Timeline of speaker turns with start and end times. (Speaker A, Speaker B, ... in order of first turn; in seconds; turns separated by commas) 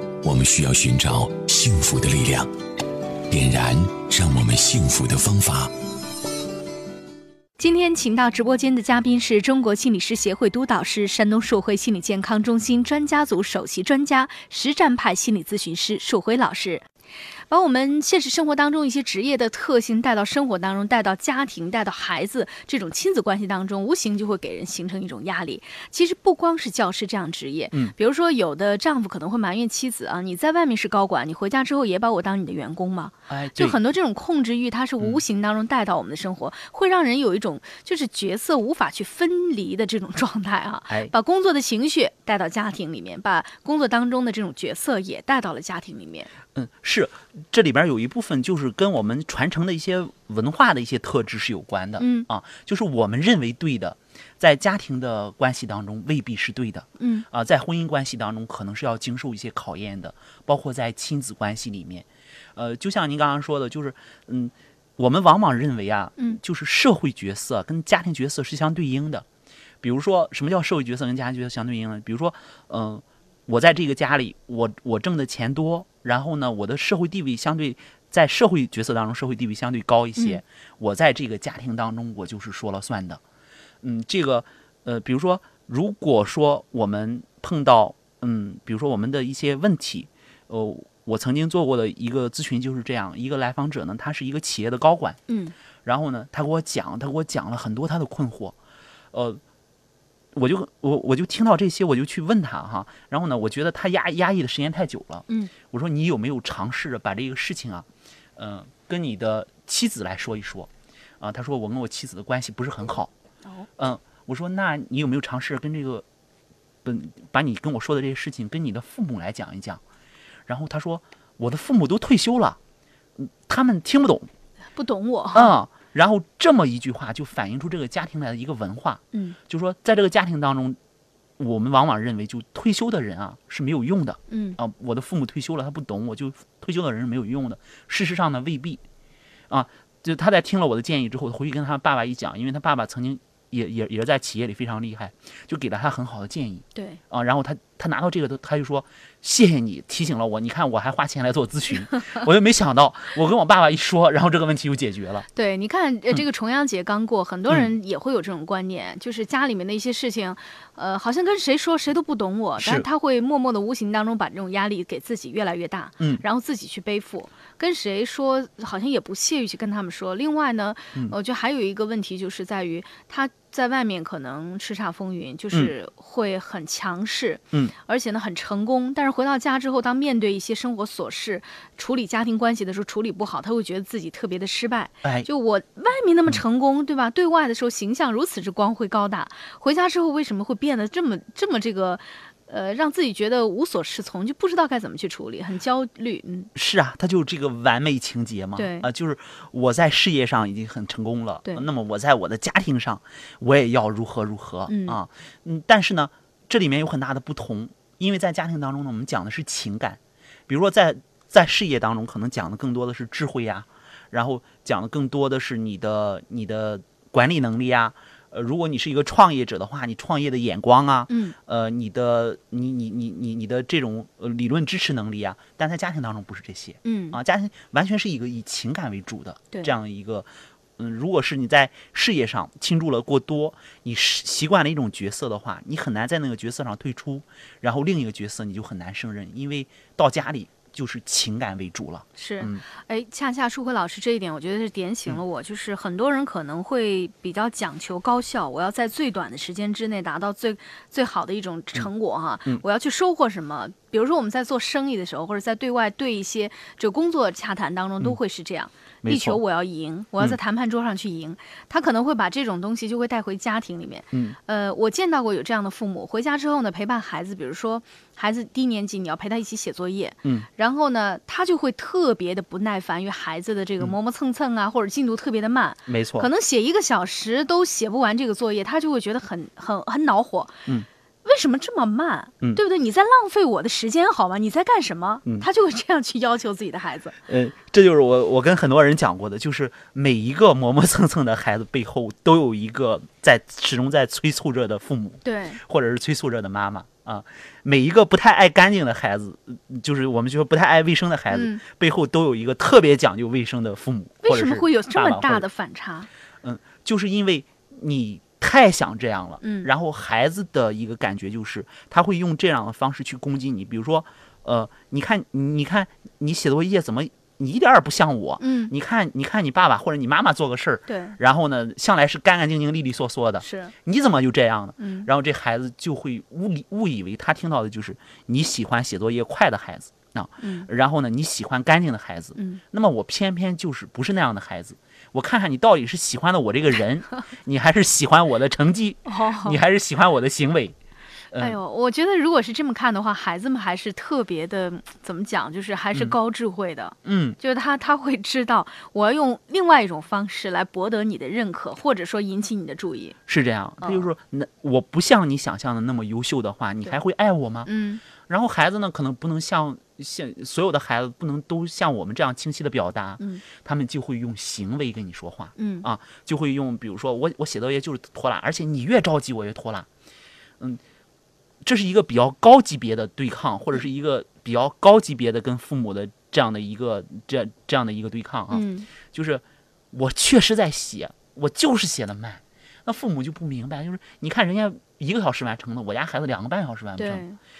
Speaker A: 0.2-2.5, Speaker A: 3.3-5.7, Speaker B: 7.6-16.9, Speaker B: 17.5-46.3, Speaker C: 33.3-33.8, Speaker C: 46.5-69.2, Speaker B: 52.0-52.3, Speaker B: 57.0-57.2, Speaker C: 69.8-83.2, Speaker C: 83.8-95.2, Speaker B: 95.3-95.5, Speaker C: 95.8-98.5, Speaker C: 99.1-99.4, Speaker C: 100.3-110.7, Speaker C: 111.2-113.1, Speaker C: 113.8-116.0, Speaker C: 116.8-119.8, Speaker C: 120.5-122.6, Speaker C: 123.2-124.3, Speaker B: 124.7-125.6, Speaker C: 125.3-130.8, Speaker C: 131.4-138.8, Speaker B: 134.3-134.6, Speaker C: 139.5-155.3, Speaker B: 146.7-147.0, Speaker B: 155.3-196.5, Speaker C: 162.6-162.9, Speaker C: 196.5-242.6, Speaker B: 198.5-198.9, Speaker B: 204.7-205.0, Speaker B: 221.1-221.3, Speaker B: 226.8-227.2, Speaker B: 242.2-280.6, Speaker C: 259.0-259.4, Speaker C: 264.1-264.4, Speaker C: 275.9-276.3, Speaker B: 281.2-287.2, Speaker C: 287.3-305.5, Speaker B: 295.2-295.6, Speaker B: 301.3-301.6, Speaker B: 304.2-306.1, Speaker C: 306.4-340.7, Speaker B: 309.4-309.7, Speaker B: 318.4-318.7, Speaker B: 320.9-321.2, Speaker B: 323.4-323.7, Speaker B: 324.8-325.1, Speaker B: 330.4-330.7, Speaker B: 332.4-332.6, Speaker B: 339.1-339.6, Speaker C: 341.3-341.6, Speaker B: 341.4-353.2, Speaker C: 347.0-347.4, Speaker C: 353.3-357.7, Speaker B: 353.8-354.1, Speaker B: 357.6-358.0, Speaker C: 358.2-369.9, Speaker B: 363.2-363.4, Speaker B: 365.6-365.9, Speaker C: 371.6-387.2, Speaker B: 378.5-378.9, Speaker B: 387.0-387.4